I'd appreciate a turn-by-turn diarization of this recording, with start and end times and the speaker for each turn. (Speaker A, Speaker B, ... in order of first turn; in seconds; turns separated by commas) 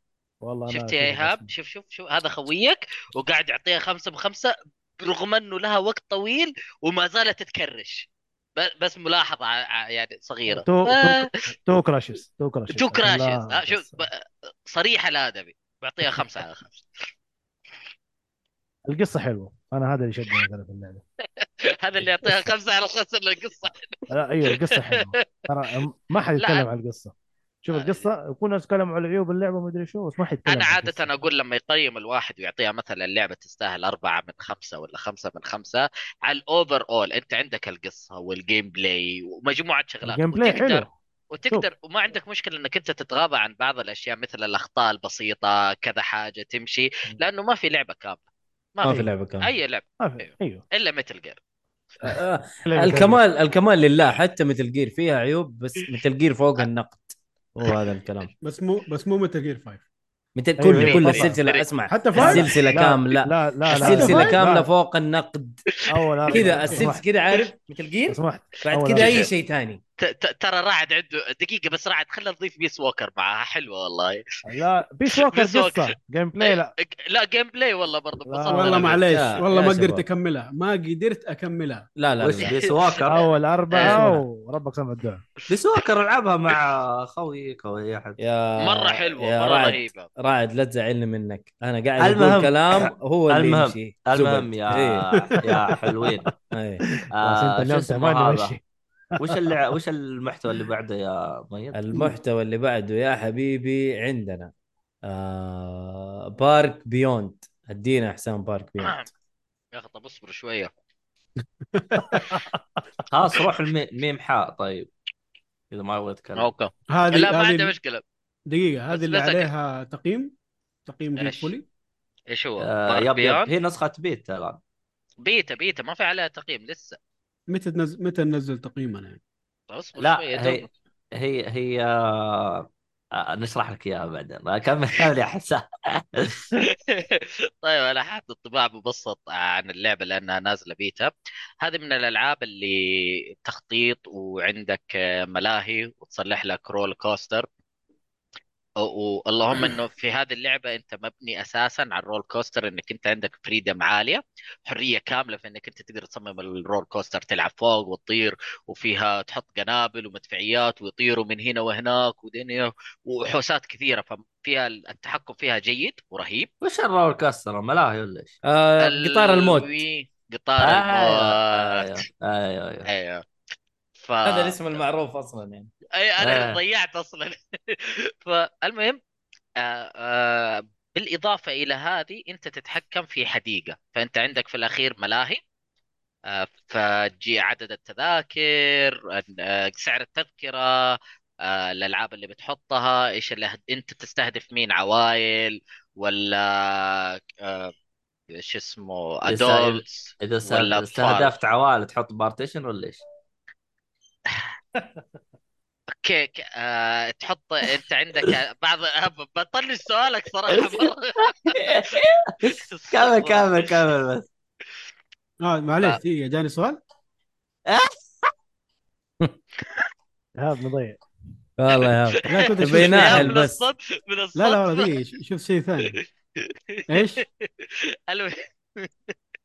Speaker A: 0.4-1.5, Speaker B: 0.7-11.3, Speaker A: 10.5-14.1, Speaker B: 12.7-14.1, Speaker B: 14.7-16.8, Speaker A: 18.9-21.0, Speaker B: 21.4-25.1, Speaker A: 22.0-22.5, Speaker A: 24.1-27.1, Speaker B: 26.4-26.7, Speaker A: 27.6-31.1, Speaker B: 27.7-28.1, Speaker B: 30.5-48.2, Speaker A: 40.0-40.9, Speaker B: 48.8-51.4, Speaker C: 48.8-49.5, Speaker A: 50.0-50.6, Speaker C: 52.0-58.3, Speaker A: 52.6-53.2, Speaker D: 58.4-59.8, Speaker C: 60.4-65.6, Speaker A: 60.6-61.4, Speaker B: 60.8-61.6, Speaker D: 61.9-62.5, Speaker A: 62.1-64.7, Speaker D: 63.8-64.4, Speaker A: 65.9-67.0, Speaker C: 66.3-69.8, Speaker D: 66.3-66.9, Speaker A: 68.1-69.3, Speaker B: 69.0-69.2, Speaker B: 70.0-74.2, Speaker A: 74.5-76.7, Speaker B: 75.1-75.8, Speaker B: 76.4-79.0, Speaker A: 78.3-79.0, Speaker D: 78.5-81.9, Speaker C: 79.1-80.0, Speaker C: 82.0-82.5, Speaker E: 82.2-83.2, Speaker B: 82.4-84.0, Speaker A: 83.1-85.2, Speaker C: 83.9-84.2, Speaker E: 85.5-88.2, Speaker C: 88.2-95.1, Speaker B: 88.6-90.1, Speaker E: 92.0-96.3, Speaker D: 95.3-96.2, Speaker C: 96.5-96.8, Speaker E: 97.2-98.6, Speaker A: 97.2-98.6, Speaker A: 99.2-99.5, Speaker E: 99.2-101.8, Speaker C: 101.7-104.5, Speaker C: 105.0-109.0, Speaker B: 109.7-110.7, Speaker D: 111.7-112.3, Speaker A: 112.1-112.6, Speaker E: 113.1-114.9, Speaker E: 115.7-116.5, Speaker B: 116.3-118.0, Speaker D: 116.9-117.7, Speaker D: 118.5-120.3, Speaker B: 118.9-119.5, Speaker D: 120.8-121.6, Speaker B: 121.2-121.5, Speaker B: 122.3-123.5, Speaker E: 122.6-124.6, Speaker B: 125.2-127.0, Speaker D: 127.5-129.2, Speaker B: 129.7-130.7, Speaker E: 130.0-136.5, Speaker B: 136.6-147.5, Speaker B: 148.8-166.5, Speaker E: 166.6-168.3, Speaker C: 168.4-169.7, Speaker B: 168.8-172.0, Speaker E: 170.6-172.9, Speaker B: 172.9-173.2, Speaker B: 174.0-174.8, Speaker C: 174.2-175.7, Speaker B: 175.9-179.0, Speaker E: 176.2-176.6, Speaker B: 179.6-185.4, Speaker B: 186.3-197.7, Speaker B: 198.3-201.3, Speaker E: 199.3-203.0, Speaker B: 206.0-213.8, Speaker E: 210.5-214.3, Speaker D: 215.4-216.8, Speaker E: 217.7-218.3, Speaker A: 220.4-221.0, Speaker C: 221.6-223.6, Speaker D: 222.2-223.3, Speaker B: 222.4-224.9, Speaker D: 224.3-226.0, Speaker B: 226.4-228.9, Speaker D: 226.9-227.2